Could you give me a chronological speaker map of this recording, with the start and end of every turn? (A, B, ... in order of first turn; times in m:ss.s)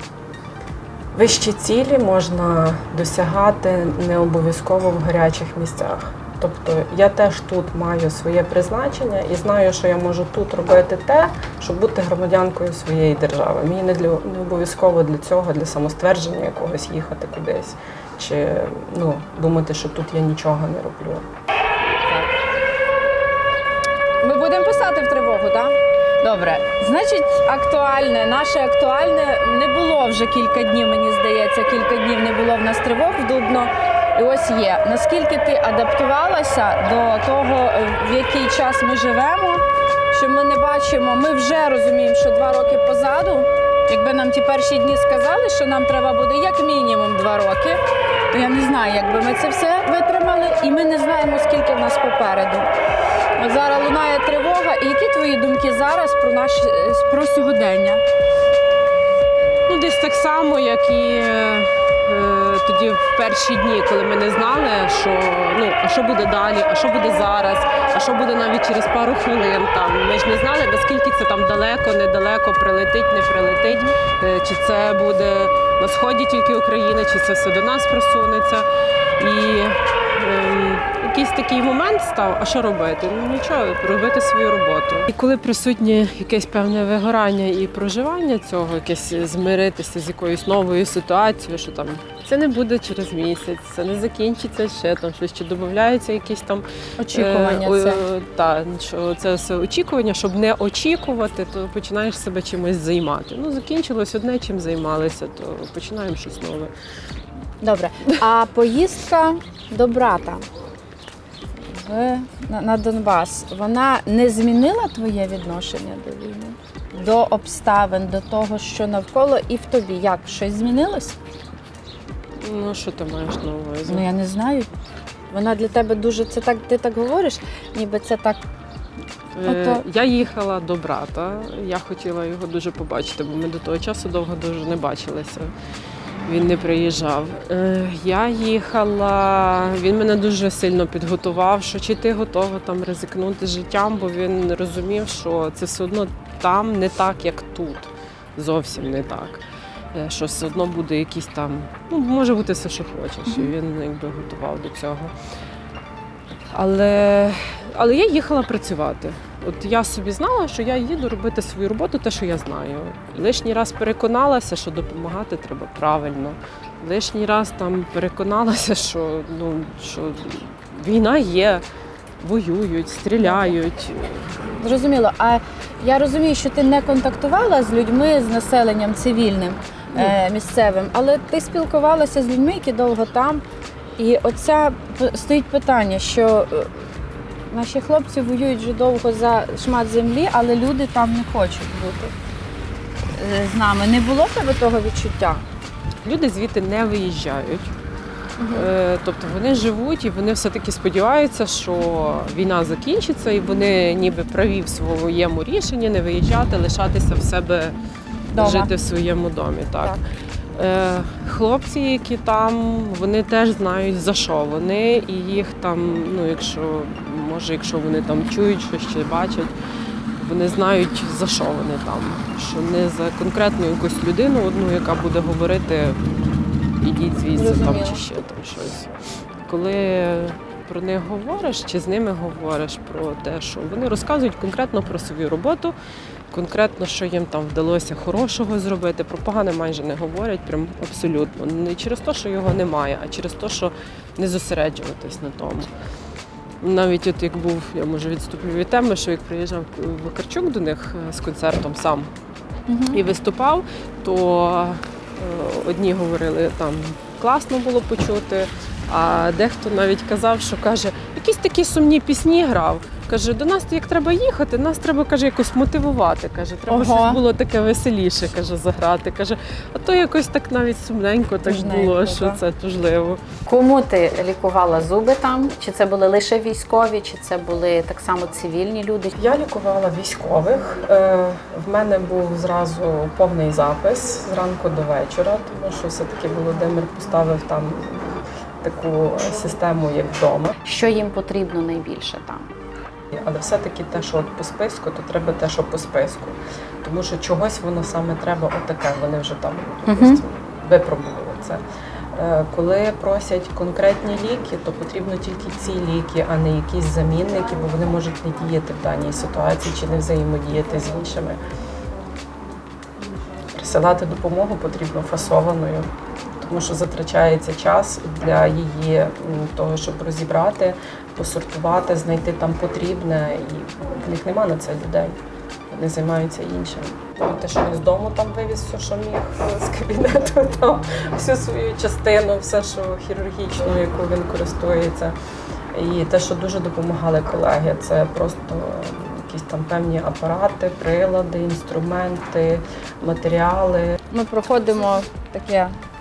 0:01.2-0:21.3 A
0:24.2-0:47.8 B
0:48.3-0:52.7 B
0:53.4-0:58.0 B
0:59.7-1:18.6 C
1:19.2-1:46.7 C
1:37.0-1:38.0 B
1:47.6-1:50.5 B
1:51.7-2:01.2 B
2:02.4-2:04.1 C
2:03.9-2:04.7 B
2:05.3-2:08.4 B
2:09.4-2:15.5 C
2:09.4-2:09.8 B
2:16.3-2:35.1 C
2:36.5-2:51.6 C
2:52.2-2:54.3 C
2:53.2-2:53.6 B
2:54.6-3:03.4 B
3:04.0-3:06.7 B
3:07.5-3:12.1 B
3:13.1-3:15.4 B
3:16.0-3:17.7 C
3:18.4-3:18.7 B
3:18.5-3:27.8 C
3:28.3-3:28.7 B
3:28.4-3:30.0 C
3:30.6-3:39.5 C
3:40.2-3:46.1 C
3:46.8-3:48.9 C
3:47.4-3:48.0 B
3:49.5-3:55.8 C
3:56.3-4:05.7 C
4:06.6-4:12.1 C
4:12.7-4:13.0 B
4:12.9-4:33.2 C
4:26.7-4:27.2 B
4:31.5-4:32.4 B
4:33.5-4:39.2 D
4:39.2-4:50.5 A
4:50.6-4:52.5 D
4:53.1-5:01.6 A
4:59.9-5:00.2 D
5:02.1-5:11.4 A
5:13.5-5:25.2 A
5:25.7-5:35.1 A
5:35.7-5:44.0 A
5:44.1-5:45.8 B